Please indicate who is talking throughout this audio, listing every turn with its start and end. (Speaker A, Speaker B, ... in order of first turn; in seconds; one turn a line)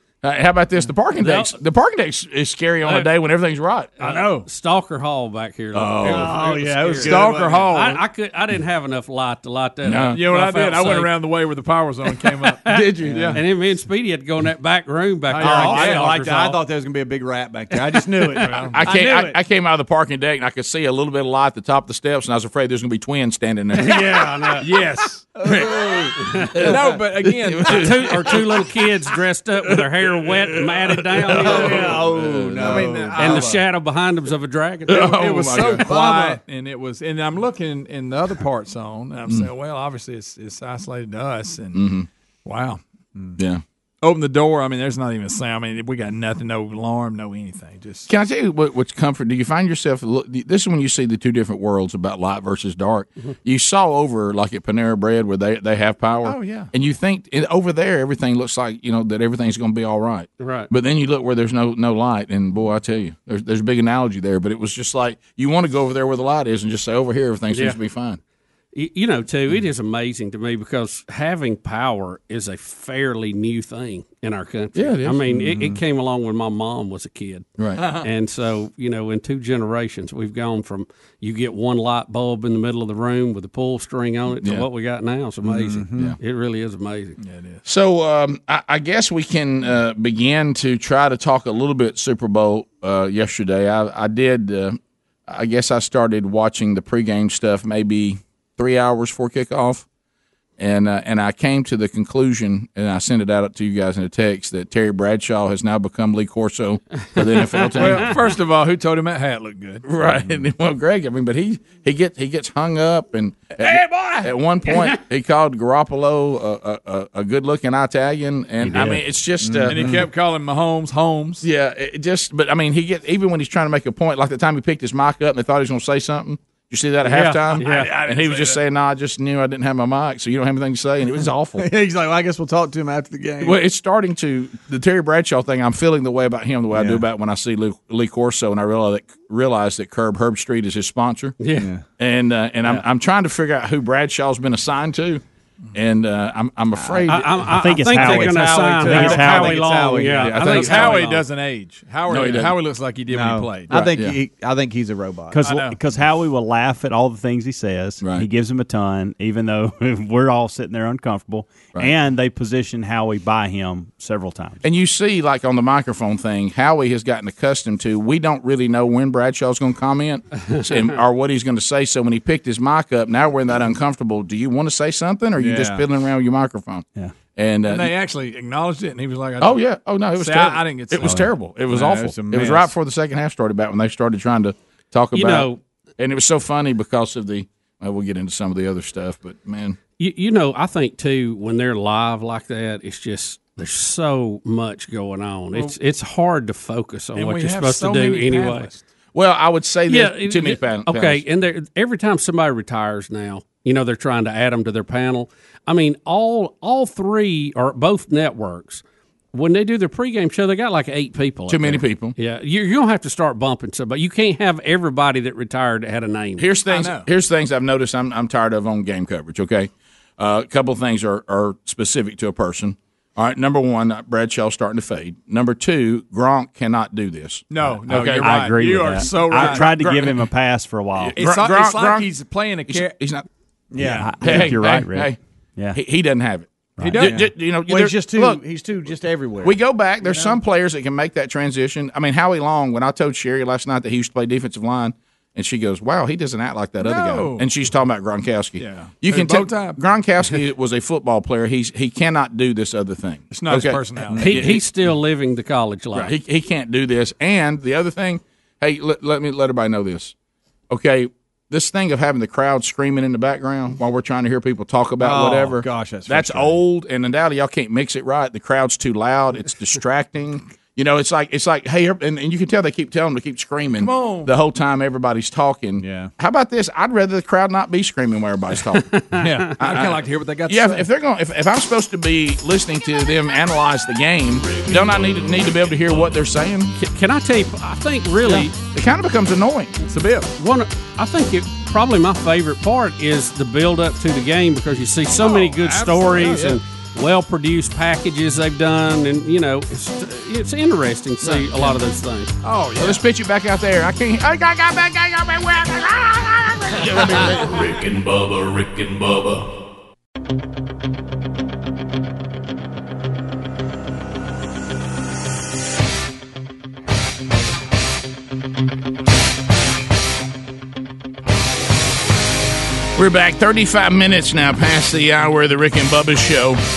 Speaker A: 0.2-3.9
Speaker B: 1.1-1.6
Speaker B: 2.8-3.1
Speaker B: 4.0-11.2
Speaker C: 4.0-4.5
Speaker A: 5.7-6.3
Speaker D: 6.0-7.7
Speaker C: 6.2-8.0
Speaker A: 9.8-10.2
Speaker C: 10.1-13.4
Speaker B: 12.1-16.6
Speaker A: 12.7-13.2
Speaker D: 13.0-13.4
Speaker C: 15.3-16.2
Speaker D: 15.4-19.2
Speaker B: 17.7-18.6
Speaker C: 18.4-18.9
Speaker A: 18.8-24.0
Speaker B: 23.7-24.9
Speaker C: 23.8-25.4
Speaker D: 25.4-26.1
Speaker A: 25.5-28.2
Speaker C: 26.0-28.8
Speaker B: 26.1-26.8
Speaker B: 27.6-32.0
Speaker C: 30.1-33.6
Speaker A: 31.4-32.9
Speaker D: 31.4-33.6
Speaker B: 33.1-35.1
Speaker A: 34.9-35.9
Speaker C: 34.9-41.9
Speaker D: 35.8-36.4
Speaker A: 41.7-42.1
Speaker C: 42.5-42.8
Speaker A: 43.4-43.6
Speaker C: 44.0-48.1
Speaker A: 48.1-68.2
Speaker C: 56.2-56.7
Speaker B: 60.4-60.7
Speaker B: 67.5-67.8
Speaker B: 68.8-87.2
Speaker A: 74.7-75.3
Speaker D: 75.3-75.8
Speaker A: 77.6-78.0
Speaker C: 77.8-78.1
Speaker A: 84.3-84.6
Speaker D: 85.4-86.2
Speaker C: 87.2-87.6
Speaker A: 87.6-99.9
Speaker A: 100.6-108.2
Speaker B: 107.0-108.2
Speaker C: 107.8-109.8
Speaker A: 109.8-120.0
Speaker C: 113.6-114.3
Speaker B: 114.7-115.0
Speaker B: 118.6-119.0
Speaker D: 119.4-120.1
Speaker C: 119.6-121.4
Speaker A: 121.4-131.7
Speaker B: 127.0-128.0
Speaker C: 127.3-128.6
Speaker D: 131.6-133.6
Speaker A: 133.4-141.4
Speaker D: 136.7-137.0
Speaker B: 141.4-141.7
Speaker D: 141.6-141.8
Speaker A: 142.0-145.2
Speaker A: 145.7-147.3
Speaker D: 146.8-147.2
Speaker B: 147.0-151.3
Speaker E: 147.5-149.7
Speaker D: 147.8-151.0
Speaker C: 148.9-149.3
Speaker C: 150.1-153.9
Speaker A: 152.1-152.6
Speaker D: 153.1-155.4
Speaker A: 153.7-154.2
Speaker E: 155.3-164.6
Speaker C: 155.4-155.8
Speaker A: 158.0-158.3
Speaker A: 164.6-177.9
Speaker B: 170.5-171.0
Speaker D: 175.4-175.9
Speaker C: 177.7-181.3
Speaker A: 179.4-189.8
Speaker E: 181.0-181.3
Speaker D: 181.7-182.7
Speaker B: 185.1-185.6
Speaker B: 189.9-198.7
Speaker C: 197.1-198.9
Speaker A: 199.1-201.2
Speaker B: 199.9-208.8
Speaker B: 209.3-216.5
Speaker A: 211.5-212.2
Speaker A: 216.4-228.5
Speaker C: 216.7-217.1
Speaker C: 227.5-229.8
Speaker E: 227.9-231.2
Speaker A: 229.2-230.3
Speaker A: 231.0-233.2
Speaker C: 231.1-233.0
Speaker D: 233.7-234.2
Speaker E: 233.8-235.8
Speaker A: 234.2-235.2
Speaker A: 235.7-238.4
Speaker E: 236.8-237.2
Speaker C: 236.8-237.3
Speaker D: 237.0-239.6
Speaker A: 239.4-254.6
Speaker C: 240.0-240.4
Speaker C: 246.8-247.6
Speaker C: 248.6-249.8
Speaker C: 253.3-254.6
Speaker B: 254.2-256.2
Speaker A: 255.9-260.1
Speaker A: 260.7-278.9
Speaker D: 265.0-266.6
Speaker C: 273.7-274.4
Speaker D: 275.8-276.1
Speaker B: 278.5-279.6
Speaker C: 279.1-280.9
Speaker A: 279.6-286.7
Speaker F: 284.5-285.7
Speaker B: 286.8-288.6
Speaker C: 288.2-288.5
Speaker A: 288.6-289.8
Speaker C: 289.8-290.3
Speaker B: 290.4-302.3
Speaker C: 295.1-296.6
Speaker C: 301.2-301.8
Speaker C: 302.4-303.1
Speaker A: 302.8-307.6
Speaker F: 307.4-309.5
Speaker A: 323.0-326.6